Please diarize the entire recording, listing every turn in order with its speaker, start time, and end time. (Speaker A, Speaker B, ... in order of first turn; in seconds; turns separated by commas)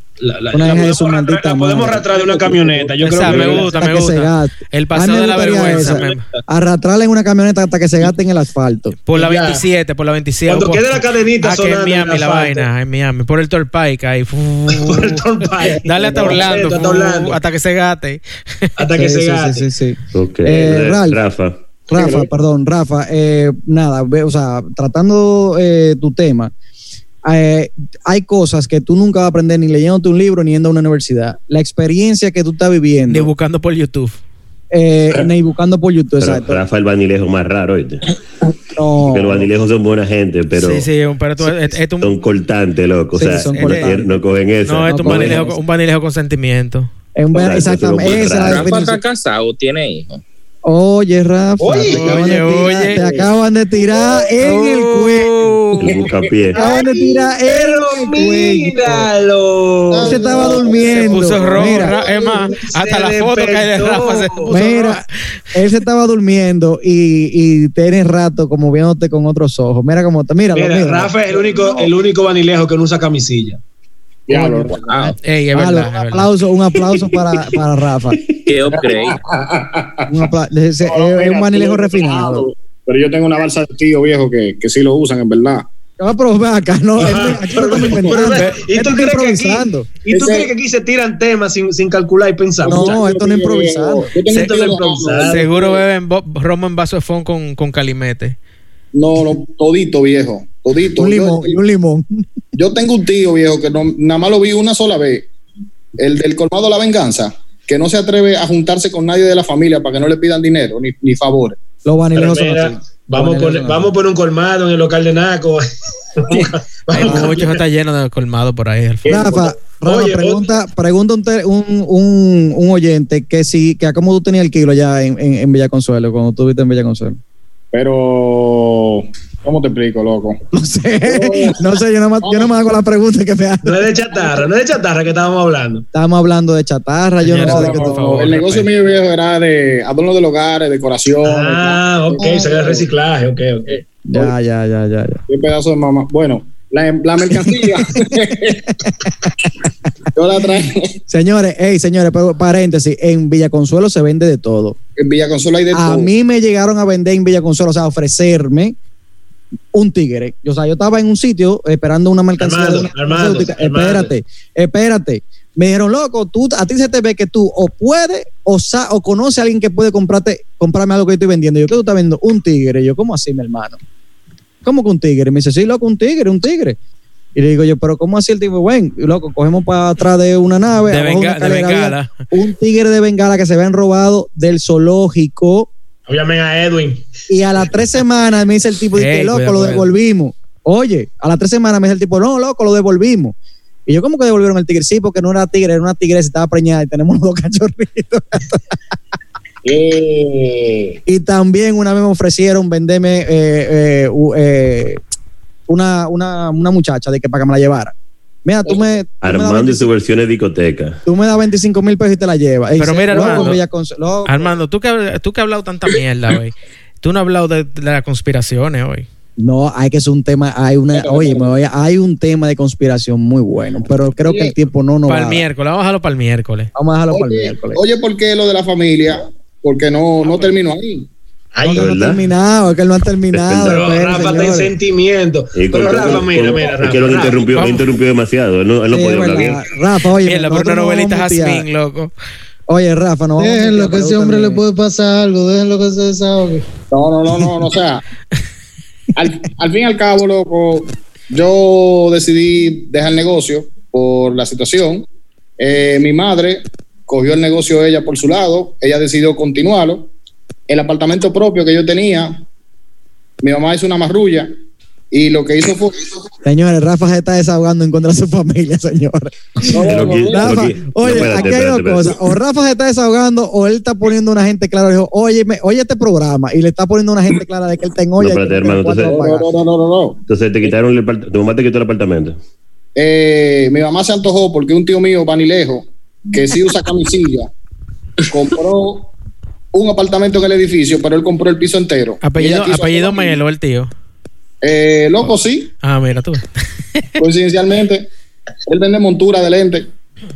Speaker A: 0.2-3.8, Speaker B: 0.5-9.0, Speaker C: 3.0-6.2, Speaker A: 5.7-6.4, Speaker C: 9.1-18.7, Speaker A: 9.1-9.6, Speaker A: 10.5-12.7, Speaker A: 14.7-17.4, Speaker B: 16.0-16.6, Speaker A: 18.8-19.6, Speaker B: 18.9-21.2, Speaker D: 20.1-21.6, Speaker B: 21.9-26.5, Speaker B: 27.2-33.3, Speaker C: 33.1-34.2, Speaker B: 34.7-36.6, Speaker D: 36.2-38.0, Speaker B: 38.7-39.5, Speaker D: 39.0-40.9, Speaker C: 40.5-42.2, Speaker D: 42.0-45.4, Speaker B: 43.1-44.2, Speaker C: 43.3-43.9, Speaker C: 44.6-46.9, Speaker B: 44.8-45.6, Speaker B: 47.1-49.0, Speaker D: 47.3-48.8, Speaker E: 48.4-50.2, Speaker B: 50.6-55.4, Speaker A: 51.6-53.0, Speaker C: 51.9-53.2, Speaker C: 54.4-56.0, Speaker D: 55.8-56.6, Speaker A: 56.0-64.5, Speaker B: 56.5-59.1, Speaker F: 59.9-61.4, Speaker B: 60.0-62.0, Speaker C: 60.7-65.1, Speaker B: 64.5-71.5, Speaker A: 70.5-73.6, Speaker G: 74.3-75.0, Speaker B: 74.3-78.2, Speaker C: 75.2-76.3, Speaker E: 78.5-79.2, Speaker G: 78.7-80.2, Speaker B: 80.1-82.5, Speaker G: 80.8-85.7, Speaker B: 86.0-89.9, Speaker A: 87.0-93.0, Speaker C: 88.3-88.6, Speaker G: 90.1-90.5, Speaker G: 92.6-95.8, Speaker B: 92.6-94.1, Speaker C: 94.3-98.3, Speaker A: 94.4-95.5, Speaker G: 98.9-101.5, Speaker B: 101.0-102.2, Speaker G: 102.5-105.3, Speaker G: 106.0-111.6, Speaker B: 111.8-113.9, Speaker A: 112.1-117.6, Speaker C: 116.9-119.2, Speaker A: 119.0-120.5, Speaker B: 119.0-127.2, Speaker G: 127.7-130.4, Speaker B: 130.5-134.0, Speaker G: 131.1-131.7, Speaker G: 132.2-132.5, Speaker A: 133.6-135.8, Speaker B: 135.9-138.3, Speaker C: 137.2-138.7, Speaker G: 137.4-142.9, Speaker A: 141.2-143.8, Speaker B: 144.0-145.2, Speaker G: 145.3-148.8, Speaker G: 150.1-151.0, Speaker B: 151.1-154.8, Speaker G: 155.0-156.1, Speaker B: 155.7-158.8, Speaker B: 159.7-173.8, Speaker A: 162.4-164.1, Speaker B: 174.6-176.8, Speaker B: 177.3-185.7, Speaker C: 180.9-182.1, Speaker A: 186.1-187.1, Speaker B: 187.3-193.3, Speaker C: 188.9-189.9, Speaker B: 193.8-198.8, Speaker G: 199.6-201.0, Speaker B: 201.1-205.0, Speaker B: 205.7-207.9, Speaker B: 208.4-209.9, Speaker D: 209.2-211.0, Speaker B: 211.1-214.6, Speaker C: 212.8-213.6, Speaker G: 213.1-213.5, Speaker C: 214.2-219.1, Speaker B: 219.4-225.4, Speaker G: 220.9-221.5, Speaker G: 224.2-224.5, Speaker C: 225.1-226.7, Speaker B: 226.7-227.8, Speaker G: 227.1-231.1, Speaker A: 231.5-232.1, Speaker B: 231.6-234.7, Speaker D: 231.7-232.2, Speaker D: 233.3-233.9, Speaker A: 233.6-237.8, Speaker D: 235.5-239.6, Speaker G: 235.8-236.7, Speaker B: 238.9-241.6, Speaker C: 240.2-242.1, Speaker B: 242.7-244.6, Speaker F: 243.4-246.7, Speaker G: 246.9-248.0, Speaker G: 249.1-255.1, Speaker G: 255.6-260.1, Speaker G: 260.7-262.4, Speaker G: 263.4-264.5, Speaker G: 265.1-266.1, Speaker B: 266.4-279.5, Speaker G: 269.7-271.5, Speaker D: 269.7-272.2, Speaker D: 278.2-279.3, Speaker G: 279.0-280.2, Speaker D: 280.3-282.4, Speaker G: 282.9-287.5, Speaker G: 288.2-289.1, Speaker G: 289.7-293.4, Speaker C: 292.2-293.9, Speaker G: 294.6-295.7, Speaker C: 295.8-296.4, Speaker G: 297.2-298.1, Speaker G: 298.7-299.9